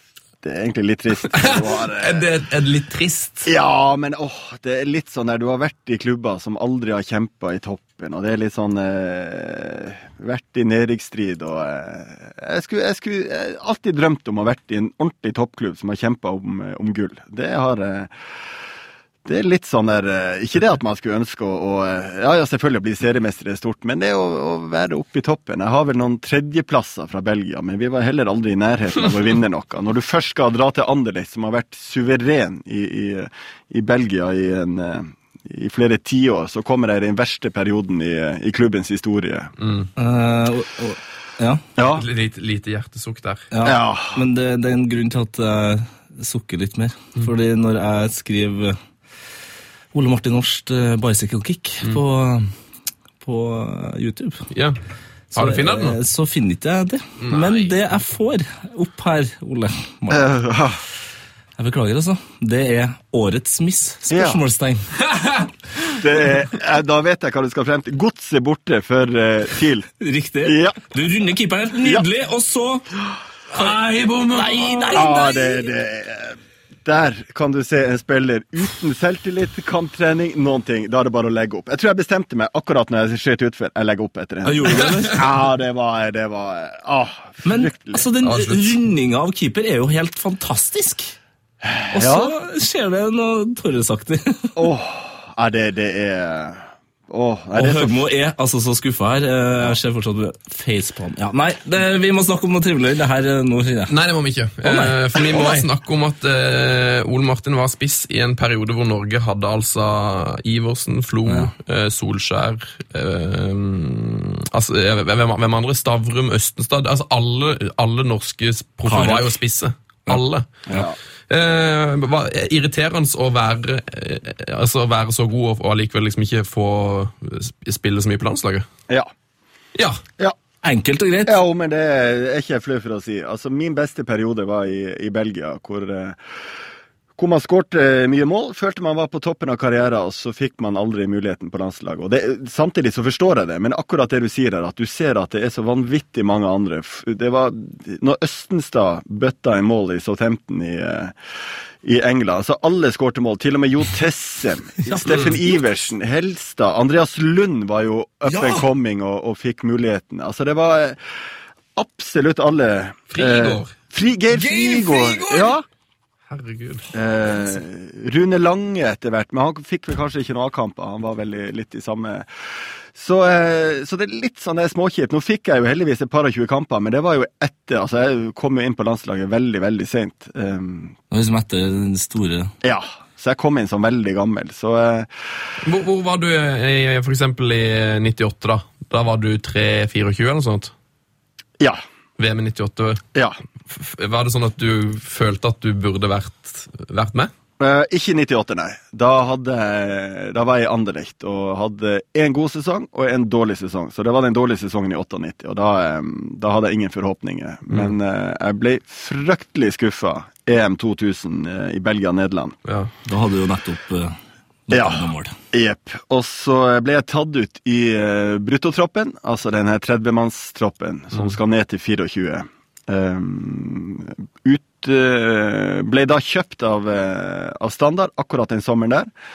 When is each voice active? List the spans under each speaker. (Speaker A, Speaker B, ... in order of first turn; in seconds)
Speaker A: 0.4-2.2, 3.4-18.1, 19.2-39.5, 41.8-42.0, 43.6-44.2, 60.1-60.8, 64.1-64.4, 65.9-69.9, 70.4-70.8, 74.9-88.1, 91.6-92.3, 94.5-98.0, 120.7-121.0, 131.2-136.2, 137.2-151.2, 151.8-161.0, 161.8-165.6, 166.9-172.3, 172.9-181.0, 182.6-185.1, 197.6-212.6, 214.7-229.1
Speaker B: 1.3-3.5, 39.6-39.9, 41.9-43.5, 54.5-54.8, 55.3-56.0, 57.2-57.7, 65.1-65.4, 73.5-75.0, 84.7-85.2, 88.2-88.8, 103.9-120.5, 121.3-128.7, 129.7-130.0, 163.1-163.7, 166.3-166.9, 185.6-190.7, 192.2-193.0, 193.7-197.3, 207.7-207.9, 212.6-212.9
Speaker C: 40.0-41.6, 43.5-48.8, 49.9-52.5, 53.2-54.5, 55.3-60.3, 61.6-65.0, 70.0-72.9, 74.3-75.7, 84.4-85.3, 87.4-91.1, 91.9-94.5, 97.5-104.0, 104.6-105.7, 111.2-111.5, 118.9-119.3, 130.6-131.4, 154.8-155.7, 158.3-158.7, 164.3-165.5, 181.1-182.5, 213.0-214.2, 214.7-215.3